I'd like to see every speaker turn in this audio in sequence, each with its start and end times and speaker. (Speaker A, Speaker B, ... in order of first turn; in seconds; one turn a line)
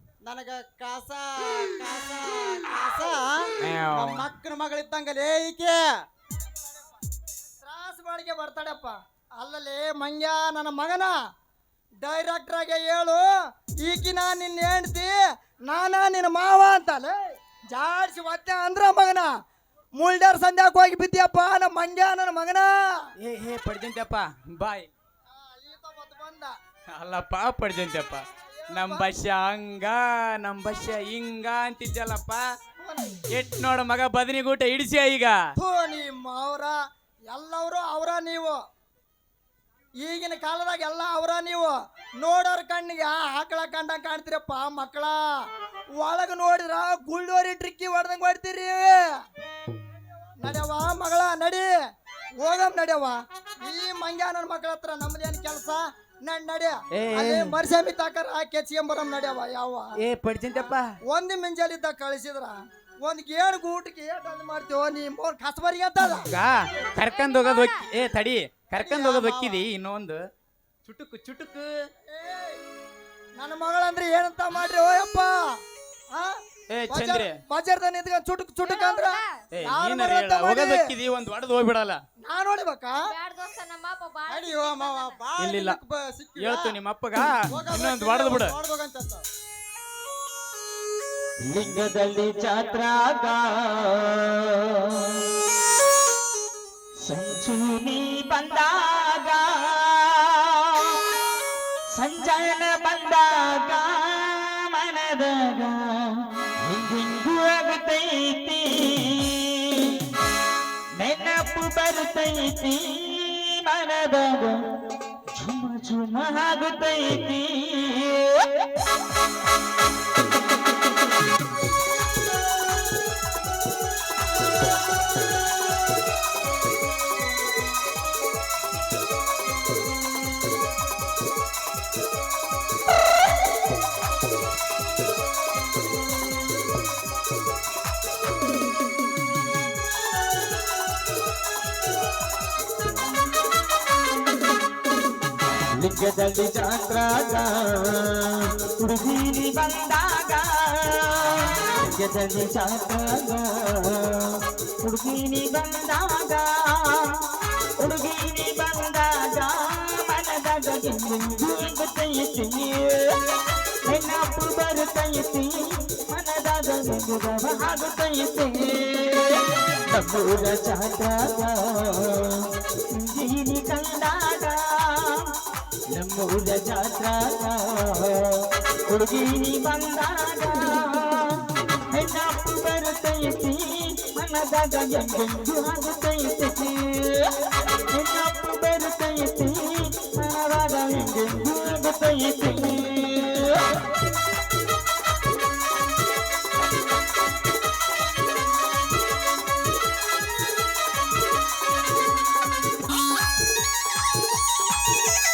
Speaker A: 0.3-5.8
Speaker B: 3.6-4.2
Speaker C: 7.6-11.1
Speaker C: 12.0-13.2
Speaker C: 13.8-17.1
Speaker C: 17.7-19.3
Speaker C: 20.0-23.1
Speaker B: 23.2-24.9
Speaker C: 25.3-26.6
Speaker B: 26.9-32.4
Speaker C: 28.6-29.1
Speaker C: 32.8-33.1
Speaker B: 33.3-35.4
Speaker C: 35.6-36.8
Speaker C: 37.3-38.6
Speaker C: 40.0-45.5
Speaker C: 46.0-49.2
Speaker C: 50.4-51.7
Speaker C: 52.4-59.9
Speaker B: 57.0-57.6
Speaker B: 60.0-61.0
Speaker C: 61.1-66.3
Speaker B: 66.3-70.2
Speaker D: 67.0-67.8
Speaker A: 68.7-69.6
Speaker B: 70.8-71.7
Speaker C: 72.1-72.6
Speaker C: 73.4-75.6
Speaker C: 76.1-76.4
Speaker B: 76.7-77.3
Speaker C: 76.9-80.8
Speaker D: 78.7-79.3
Speaker B: 79.5-82.0
Speaker C: 82.2-83.0
Speaker D: 83.1-85.2
Speaker A: 84.3-86.8
Speaker B: 85.4-85.8
Speaker B: 86.4-88.5
Speaker A: 87.5-89.2
Speaker E: 91.5-95.4
Speaker E: 97.0-101.2
Speaker E: 101.9-110.1
Speaker E: 111.0-118.9
Speaker E: 145.7-163.2
Speaker E: 163.8-175.3
Speaker E: 175.9-194.0